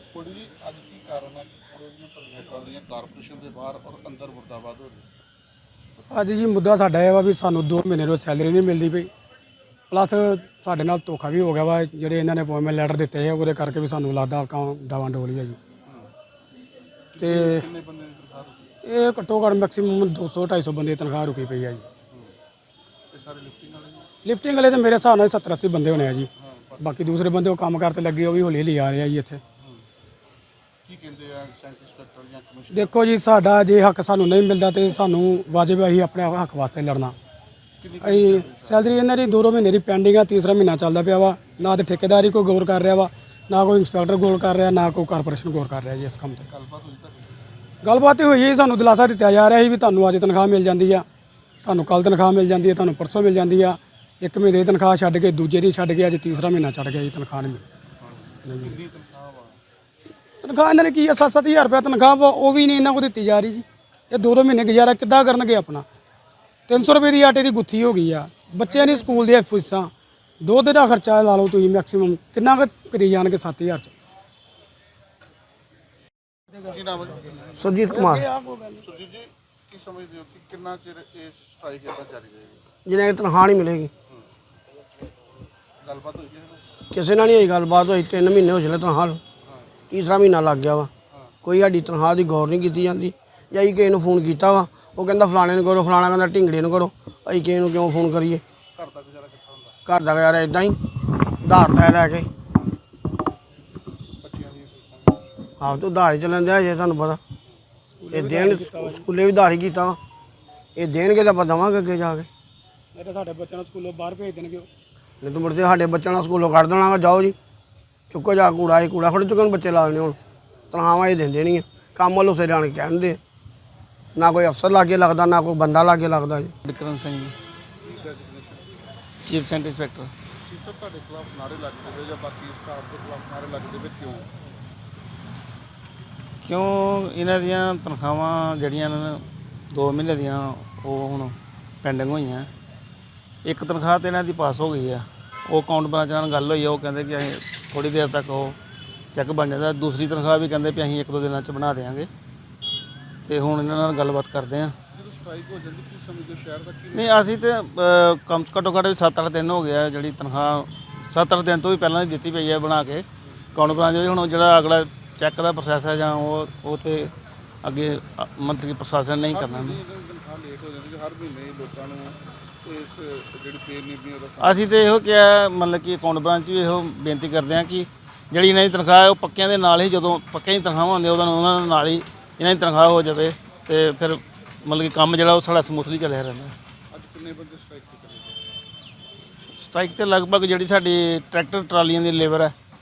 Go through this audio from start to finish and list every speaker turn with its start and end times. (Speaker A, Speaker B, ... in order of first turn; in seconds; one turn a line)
Speaker A: 0.1-5.1
Speaker B: 6.1-9.1
Speaker B: 9.9-15.6
Speaker A: 17.1-18.7
Speaker B: 17.2-17.7
Speaker B: 18.8-21.8
Speaker A: 23.1-24.1
Speaker B: 24.2-29.4
Speaker A: 26.4-26.9
Speaker A: 30.8-33.0
Speaker B: 32.7-37.1
Speaker A: 37.8-38.8
Speaker B: 38.0-46.5
Speaker A: 46.5-47.3
Speaker B: 47.8-51.0
Speaker B: 51.6-57.6
Speaker A: 58.0-59.6
Speaker B: 58.5-58.8
Speaker B: 60.4-65.9
Speaker B: 66.7-73.9
Speaker A: 76.6-77.7
Speaker C: 77.6-78.3
Speaker B: 77.9-78.8
Speaker A: 78.8-82.6
Speaker C: 82.8-83.9
Speaker A: 85.8-86.6
Speaker C: 86.9-89.2
Speaker C: 89.9-90.9
Speaker C: 91.4-98.4
Speaker A: 98.8-99.8
Speaker C: 99.8-100.8
Speaker C: 101.4-102.3
Speaker A: 104.2-105.5
Speaker C: 105.6-107.2
Speaker B: 108.0-109.1
Speaker C: 108.1-110.0
Speaker C: 110.8-112.3
Speaker B: 112.9-114.7
Speaker C: 115.2-117.3
Speaker C: 118.1-120.2
Speaker C: 120.7-123.2
Speaker C: 124.2-126.5
Speaker D: 126.7-127.3
Speaker A: 127.8-128.8
Speaker D: 129.3-130.1
Speaker A: 130.5-134.3
Speaker D: 136.4-142.5
Speaker D: 143.4-148.6
Speaker D: 149.1-152.1
Speaker D: 153.2-154.8
Speaker A: 154.9-157.3
Speaker D: 156.9-167.1
Speaker D: 167.6-169.8
Speaker A: 169.3-174.7
Speaker D: 174.4-186.6
Speaker A: 186.9-188.4
Speaker D: 189.6-192.5